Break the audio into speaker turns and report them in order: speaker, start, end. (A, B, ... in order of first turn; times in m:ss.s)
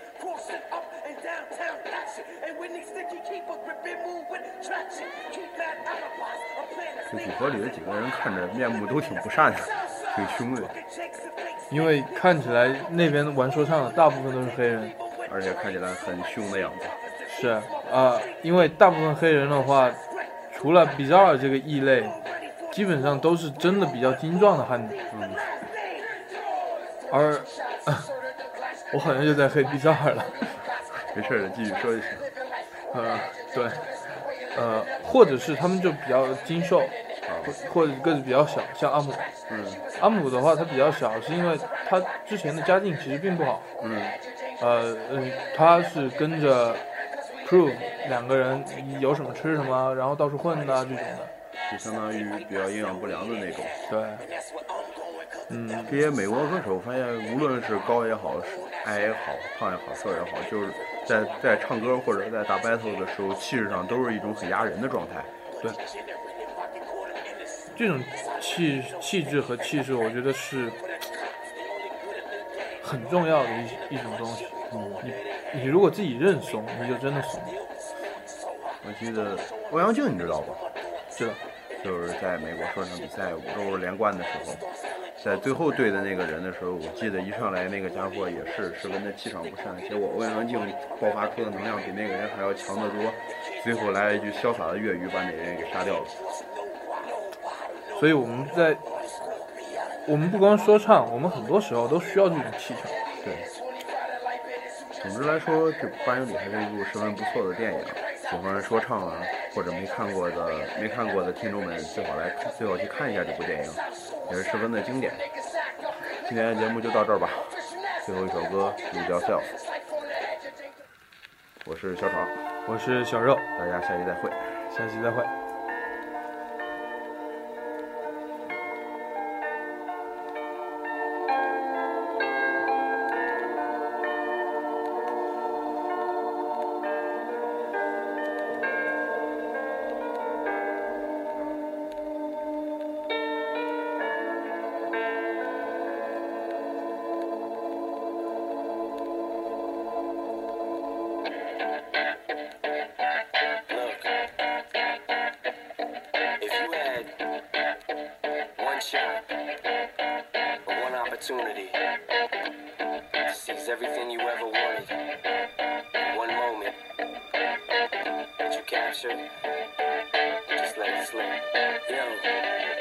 0:07.1-0:10.8 A
0:11.7-0:15.0 B
0:15.3-0:17.0 A
0:17.3-0:20.0 B
0:20.5-0:22.2 B
0:22.7-0:25.0 B
0:25.1-0:25.5 A
0:27.1-0:28.1 B
0:28.9-0:30.5 B
0:31.1-0:32.3 A
0:32.9-0:33.9 B
0:34.4-0:39.3 B
0:37.2-0:37.6 A
0:39.5-0:39.8 A
0:40.0-0:43.7 B
0:43.8-0:44.2 A
0:44.6-0:46.8 B
0:47.4-0:51.3 B
0:51.7-0:53.8 A
0:53.9-0:54.3 B
0:55.5-0:56.0 B
0:55.9-1:05.3 A
1:07.8-1:10.8 B
1:12.8-1:17.6 B
1:14.7-1:15.0 A
1:18.8-1:20.6 A
1:21.8-1:24.6 A
1:25.2-1:36.2 A
1:37.9-1:38.8 B
1:40.1-1:43.0 B
1:43.2-1:43.5 A
1:45.0-1:55.3 A
1:56.1-1:59.5 A
2:01.6-2:02.4 A
2:02.7-2:03.5 B
2:03.6-2:04.6 A
2:04.7-2:05.3 B
2:33.7-2:34.1 C
2:36.4-2:37.2 C
2:38.6-2:39.3 C
2:40.6-2:41.8 C
2:43.3-2:45.0 C
2:46.1-2:46.8 C
2:48.4-2:49.3 C
2:50.5-2:52.4 C